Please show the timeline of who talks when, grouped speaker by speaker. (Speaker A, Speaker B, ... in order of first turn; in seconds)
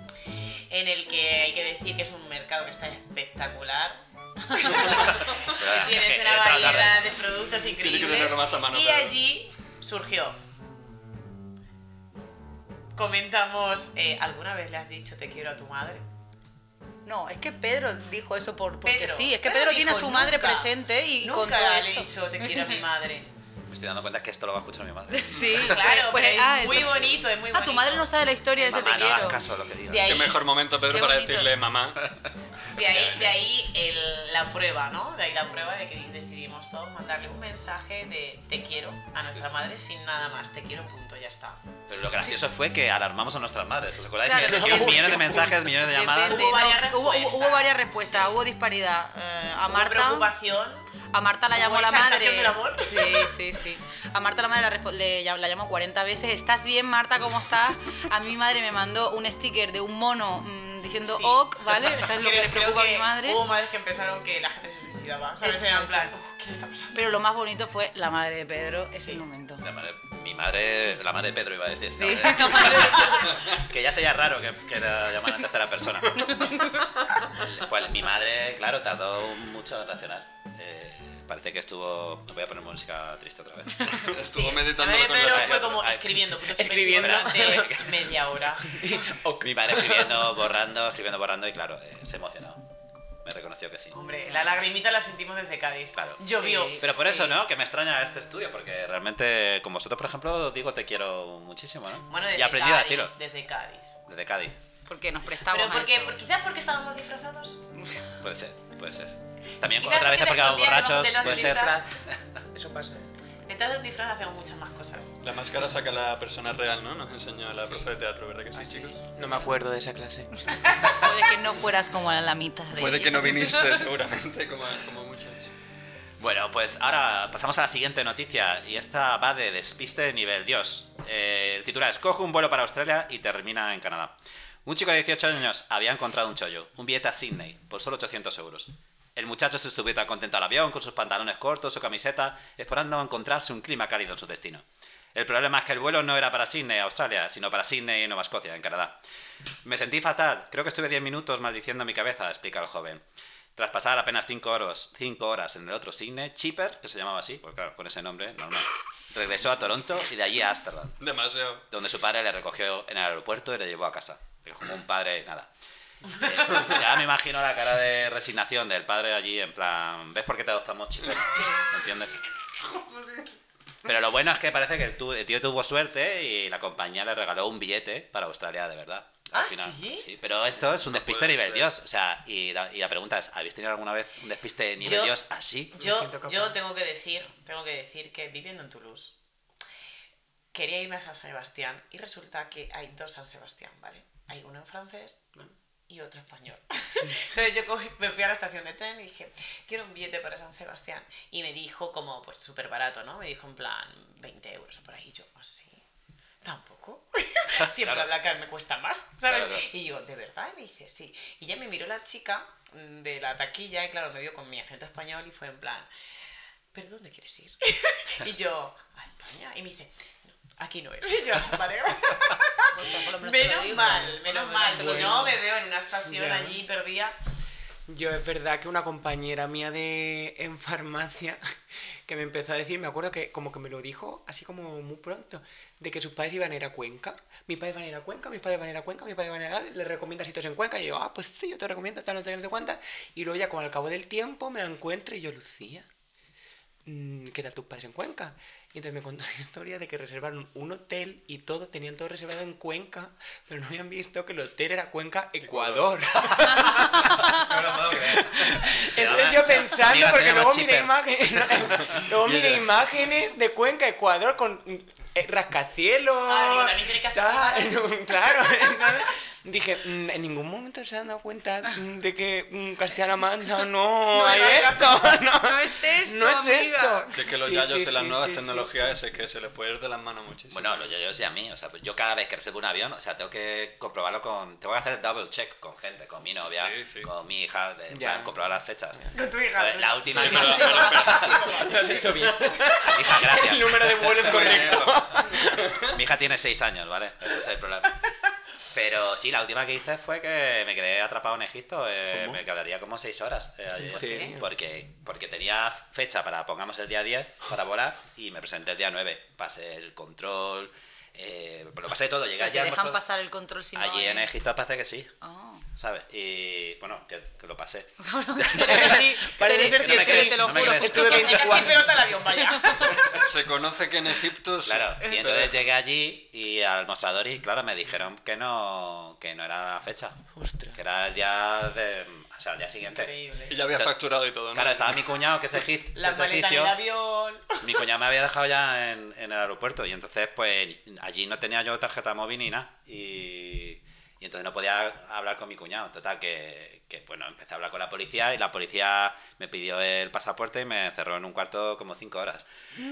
Speaker A: 0.7-10.4, 12.9-16.0, 18.8-23.3, 25.6-30.4, 32.7-41.6, 46.2-48.4, 49.7-50.9, 51.5-53.3, 61.0-67.0, 68.9-69.2, 84.2-88.8, 93.9-96.8, 102.1-104.0, 105.4-107.6, 109.6-111.8, 113.5-115.2, 120.7-121.0, 166.2-166.6, 179.3-180.1, 184.8-185.2, 185.7-189.2, 190.5-195.3, 195.9-205.8, 206.4-215.9, 216.7-227.2, 266.2-268.6, 274.1-275.3, 289.1-293.1, 320.9-323.1, 332.8-333.6, 335.9-337.8
Speaker B: 4.9-7.1, 23.7-25.8, 28.6-30.1, 32.0-33.3, 41.9-46.5, 69.6-76.5, 77.3-84.0, 85.2-86.3, 86.9-88.0, 89.3-92.6, 93.2-94.0, 96.0-96.2, 96.8-103.1, 104.1-104.5, 108.2-112.2, 126.2-149.0, 149.6-153.0, 153.5-161.0, 161.7-165.5, 166.1-172.3, 173.8-185.7, 207.7-208.1, 209.2-209.6, 256.8-262.0, 280.5-289.0, 289.6-291.3, 292.8-294.9, 295.9-298.0, 298.7-313.0, 313.7-315.1, 315.7-318.9, 319.7-321.6, 322.9-323.2, 324.6-330.1, 330.7-333.1, 334.5-336.8, 337.6-352.4
Speaker C: 7.7-9.2, 30.0-32.1, 83.8-85.8, 115.2-119.1, 122.8-125.5, 161.0-161.6, 171.0-171.3, 180.6-181.7, 255.4-255.9, 262.2-262.7, 277.1-280.9, 286.6-287.1, 290.1-291.8, 294.1-295.9, 323.0-325.6, 333.5-335.1
Speaker D: 17.1-22.8, 25.1-29.4, 30.9-31.5, 44.2-50.3, 51.1-63.4, 65.4-66.1, 66.9-69.6, 72.0-73.3, 76.2-76.9, 94.2-94.5, 96.4-97.4, 104.8-106.2, 121.0-123.8, 222.7-225.4, 275.3-277.1, 303.9-304.3, 312.4-314.3, 315.2-315.6, 318.0-321.7, 322.3-322.9, 325.0-325.3
Speaker E: 44.7-45.5, 86.5-90.4, 111.2-113.1, 118.5-120.7, 185.7-186.6, 224.7-225.4, 226.0-226.6, 227.9-231.5, 232.1-245.9, 246.8-257.3, 257.9-279.2, 287.9-288.4, 290.8-295.8, 302.1-302.4, 303.7-304.5, 318.6-322.0, 330.3-330.8